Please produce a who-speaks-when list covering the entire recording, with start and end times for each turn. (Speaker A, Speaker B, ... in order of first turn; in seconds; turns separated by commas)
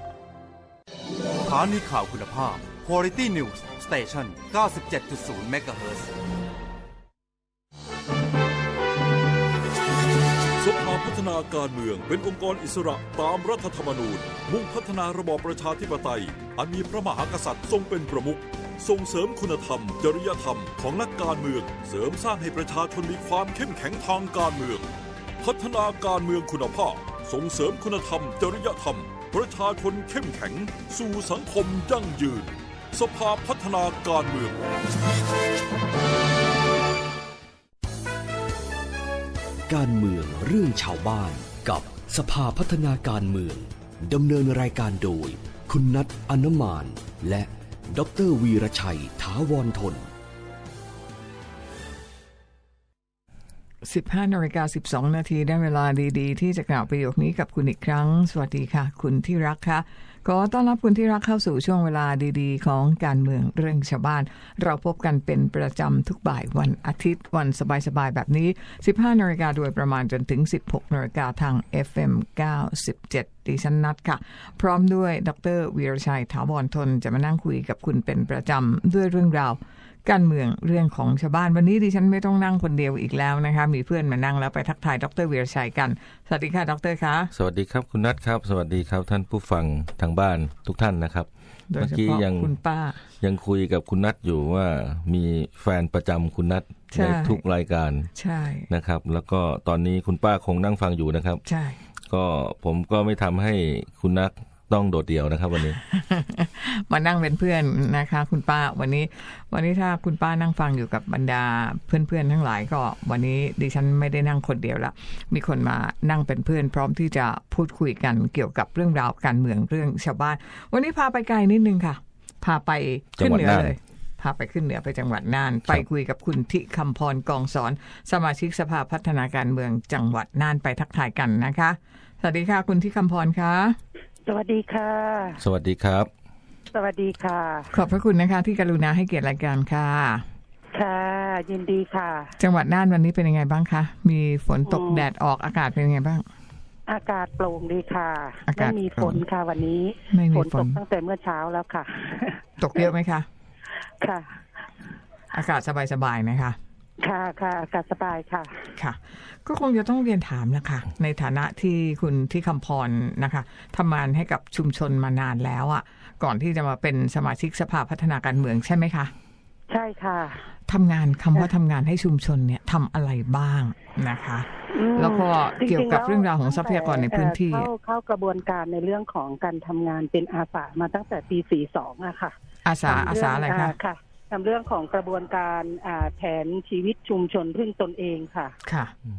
Speaker A: 1.4-6.1, Speaker B: 10.6-24.9, Speaker B: 25.4-34.5, Speaker C: 39.7-50.1, Speaker D: 53.8-87.3, Speaker E: 87.3-92.5, Speaker D: 91.7-93.0, Speaker E: 93.2-98.1, Speaker D: 96.9-97.4, Speaker D: 98.1-98.7, Speaker E: 98.7-101.4, Speaker D: 101.5-101.8, Speaker E: 102.1-105.8, Speaker D: 105.7-133.8, Speaker E: 123.2-123.8, Speaker F: 134.3-135.4, Speaker E: 135.4-136.1, Speaker F: 136.7-137.7, Speaker D: 137.7-140.2, Speaker F: 140.7-142.3, Speaker D: 142.4-146.2, Speaker F: 144.7-145.1, Speaker F: 146.9-152.8, Speaker D: 148.5-149.2, Speaker D: 150.1-150.8, Speaker D: 152.6-153.3, Speaker F: 154.0-154.3, Speaker D: 155.3-156.6, Speaker F: 157.0-158.6, Speaker D: 158.8-169.1, Speaker F: 169.7-170.4, Speaker D: 170.7-177.7, Speaker F: 174.7-182.3, Speaker D: 182.6-183.7, Speaker F: 182.8-188.6, Speaker D: 188.6-188.9